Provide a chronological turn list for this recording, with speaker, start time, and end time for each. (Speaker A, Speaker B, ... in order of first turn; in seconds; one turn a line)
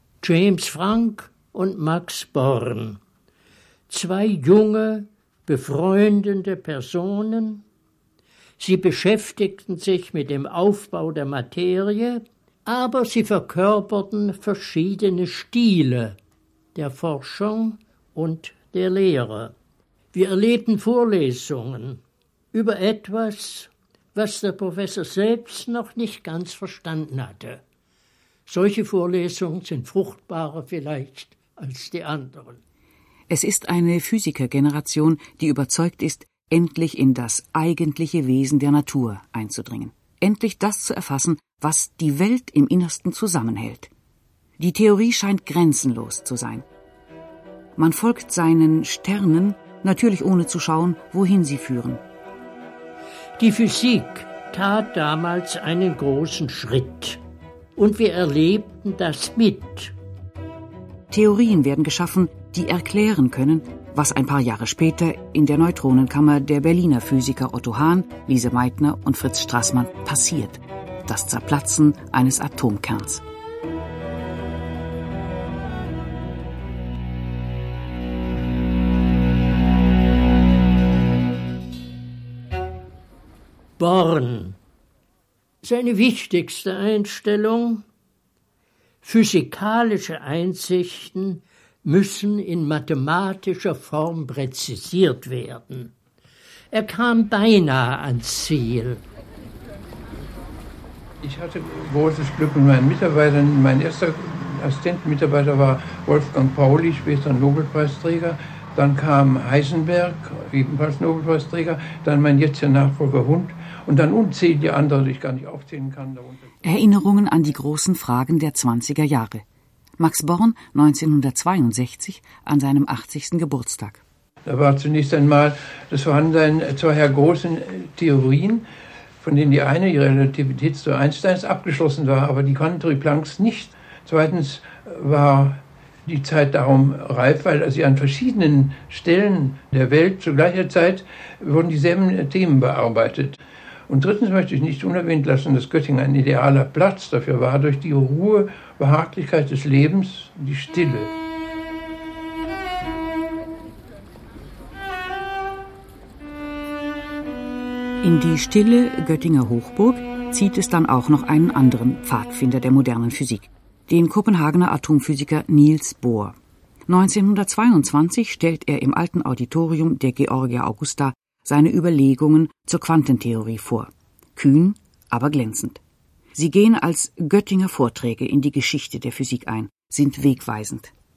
Speaker A: 0.2-3.0
Speaker A: 3.9-7.6
Speaker A: 8.6-16.1
Speaker A: 16.7-19.5
Speaker A: 20.1-22.0
Speaker A: 22.5-27.6
Speaker A: 28.5-32.6
Speaker B: 33.3-43.9
Speaker B: 44.6-46.6
Speaker B: 47.8-52.0
Speaker A: 53.4-57.2
Speaker A: 57.8-59.9
Speaker B: 61.1-73.2
Speaker A: 83.8-84.6
Speaker A: 85.6-87.8
Speaker A: 89.0-95.9
Speaker A: 96.7-99.0
Speaker C: 101.2-116.5
Speaker B: 116.6-119.4
Speaker B: 120.0-124.0
Speaker C: 124.5-128.6
Speaker C: 129.2-151.1
Speaker B: 158.0-166.3
Speaker B: 166.9-175.8
Speaker B: 176.3-180.9